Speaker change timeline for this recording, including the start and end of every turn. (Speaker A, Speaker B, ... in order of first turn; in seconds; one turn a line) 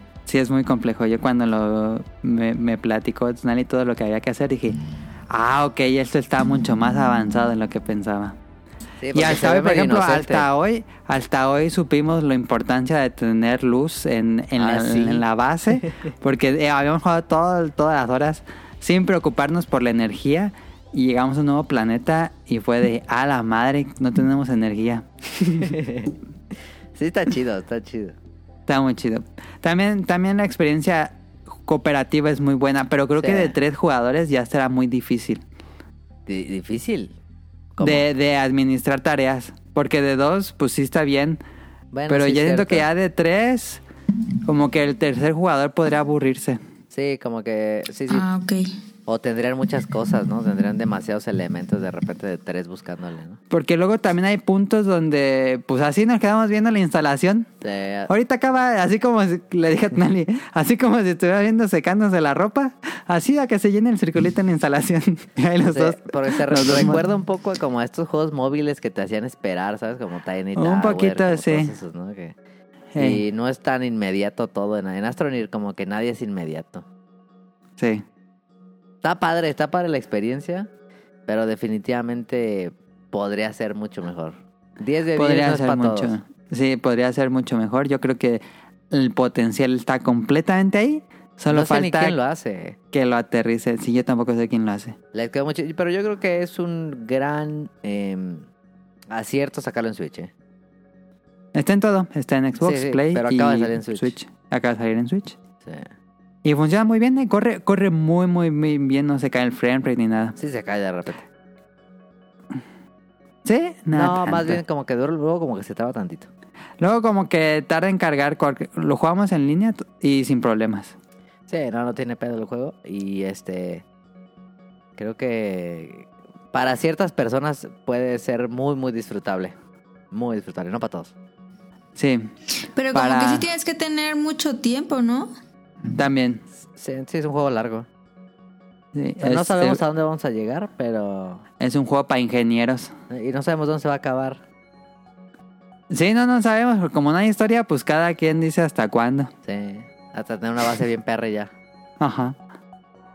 Speaker A: 0.2-4.8
Speaker A: 5.3-8.4
Speaker B: 9.0-10.4
Speaker A: 9.1-25.7
Speaker B: 14.6-15.2
Speaker B: 25.6-26.1
Speaker B: 27.0-28.1
Speaker A: 28.7-35.4
Speaker B: 33.2-33.5
Speaker B: 36.3-37.1
Speaker B: 37.7-38.1
Speaker A: 37.8-41.4
Speaker B: 41.9-42.9
Speaker A: 42.1-43.8
Speaker A: 44.5-46.6
Speaker B: 46.9-48.2
Speaker C: 48.1-48.7
Speaker B: 49.1-53.4
Speaker A: 53.5-57.5
Speaker B: 57.6-58.1
Speaker A: 58.1-67.0
Speaker B: 65.6-72.3
Speaker A: 70.5-71.7
Speaker A: 72.9-73.2
Speaker B: 73.0-76.8
Speaker A: 77.8-78.0
Speaker B: 79.0-80.7
Speaker B: 81.3-86.1
Speaker A: 85.1-92.2
Speaker B: 91.5-92.8
Speaker A: 92.9-95.0
Speaker B: 95.1-98.5
Speaker B: 99.1-100.3
Speaker A: 101.5-105.4
Speaker B: 102.6-104.1
Speaker A: 106.4-110.3
Speaker B: 110.4-111.2
Speaker A: 113.4-114.6
Speaker B: 113.9-116.3
Speaker A: 116.8-121.0
Speaker B: 121.5-123.8
Speaker B: 125.0-129.5
Speaker B: 130.1-131.1
Speaker A: 131.9-132.3
Speaker C: 132.7-135.3
Speaker A: 132.9-133.4
Speaker A: 135.9-136.4
Speaker B: 136.8-137.9
Speaker A: 138.9-139.8
Speaker B: 139.2-141.4
Speaker A: 141.6-142.9
Speaker B: 143.1-144.4
Speaker A: 145.9-149.3
Speaker B: 149.4-151.5
Speaker A: 152.0-152.4